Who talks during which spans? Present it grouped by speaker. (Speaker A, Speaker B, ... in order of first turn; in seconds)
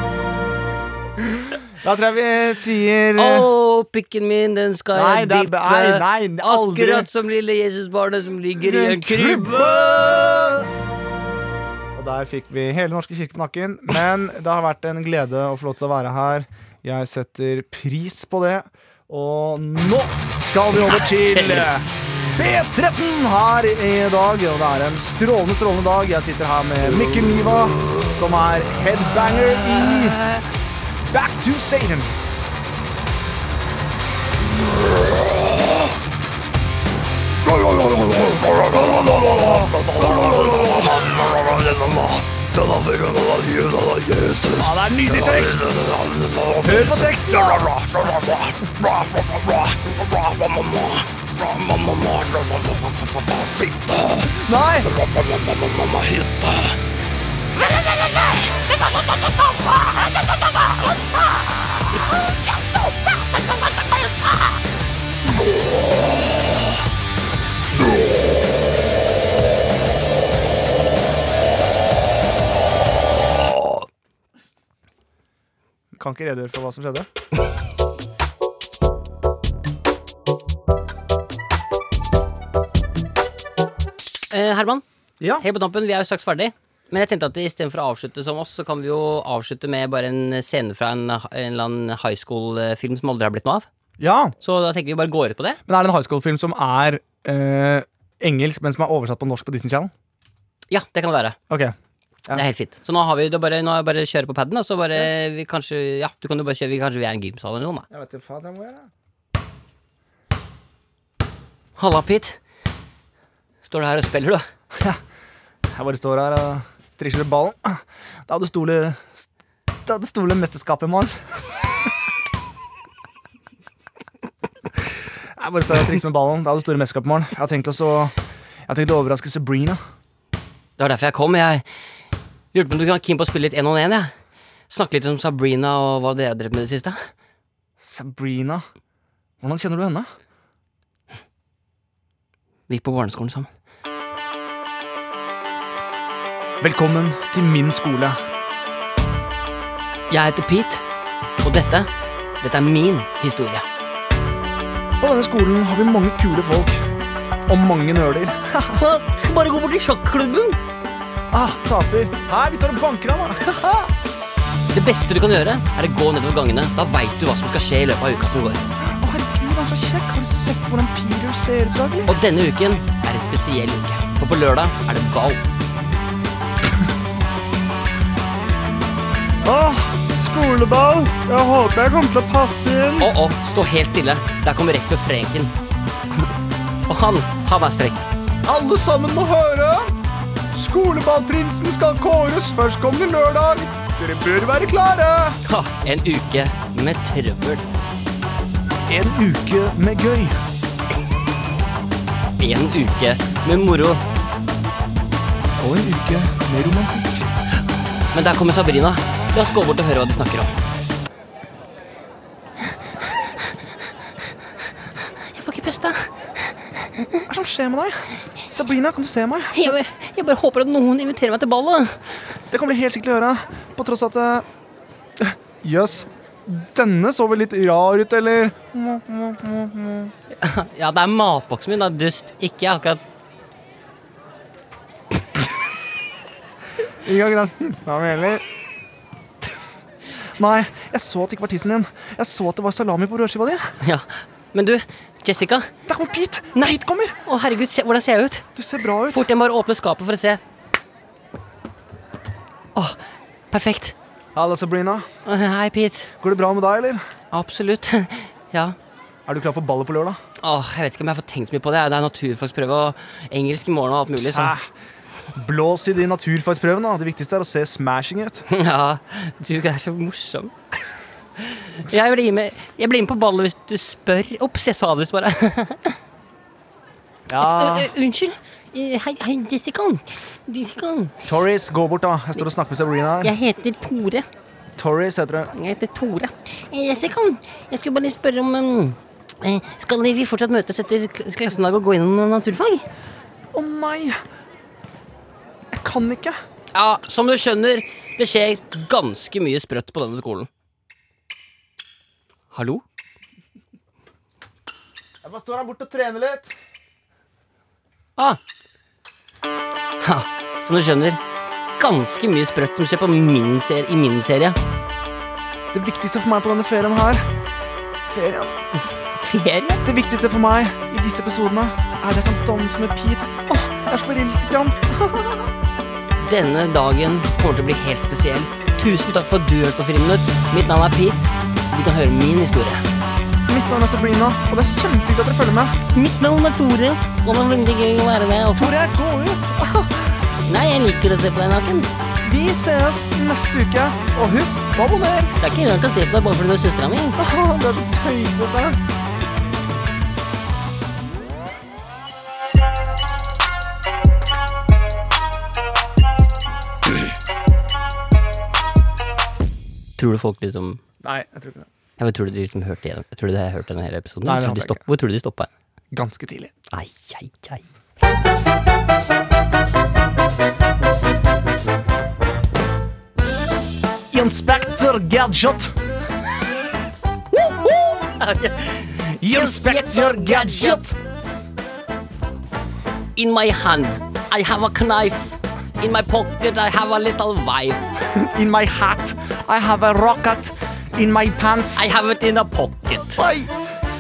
Speaker A: 1.4-3.5, 4.9-7.1, 8.6-10.6, 11.9-30.2, 31.1-32.1, 38.5-41.1, 44.5-45.7, 46.6-47.7, 54.2-54.9, 75.9-77.1, 94.0-94.3, 95.7-99.9, 101.5-101.7, 107.9-108.9, 114.7-115.0, 115.7-119.3, 119.8-121.7, 125.3-128.1, 128.7-129.8, 137.8-138.6, 139.4-140.1, 146.6-148.2, 155.0-156.9, 157.5-158.8, 161.3-163.9, 168.8-172.1, 179.4-183.1, 188.4-189.9, 190.5-195.4, 198.9-200.4, 205.6-207.3, 217.2-219.8, 222.5-224.4, 225.2-230.1, 237.0-238.4, 240.3-243.7, 245.9-247.2, 248.6-249.3, 254.3-255.1, 256.2-257.0, 259.3-260.2, 264.1-264.7, 265.3-268.4, 277.3-277.9, 281.2-283.3, 284.8-285.5, 293.5-294.2, 295.7-296.4, 305.2-306.5, 315.7-317.2, 318.1-318.6, 319.8-325.5, 333.5-335.8, 338.5-340.1, 342.2-345.4, 347.1-348.8, 361.0-361.7, 364.2-364.8, 365.9-366.5, 374.1-375.8, 377.3-378.1, 379.2-380.9, 388.1-391.8, 393.1-393.5
Speaker B: 3.1-9.8, 20.8-21.7, 37.5-54.3, 54.9-56.7, 59.2-60.0, 84.3-84.8, 85.4-93.7, 94.4-95.6, 100.7-101.4, 102.3-107.9, 111.8-112.4, 113.6-114.4, 130.8-131.6, 132.5-134.1, 134.7-137.0, 142.7-143.5, 150.1-150.8, 151.4-151.9, 152.4-153.6, 158.7-160.6, 164.7-168.6, 172.1-175.4, 183.0-185.5, 186.9-188.1, 195.4-197.6, 202.4-204.0, 208.1-210.5, 215.3-216.5, 219.5-222.2, 230.4-233.0, 243.8-245.7, 246.6-248.4, 249.1-250.4, 253.5-253.9, 255.2-256.1, 257.3-258.8, 260.4-264.5, 268.5-270.5, 271.4-276.0, 277.4-281.2, 283.2-284.2, 285.5-292.9, 296.7-300.5, 302.5-302.8, 310.0-311.2, 311.8-314.6, 319.2-319.8, 326.2-332.9, 335.9-338.7, 340.4-341.9, 345.4-347.2, 360.0-360.8, 362.0-365.5, 366.7-367.6, 378.2-380.8, 383.1-387.9, 391.7-393.2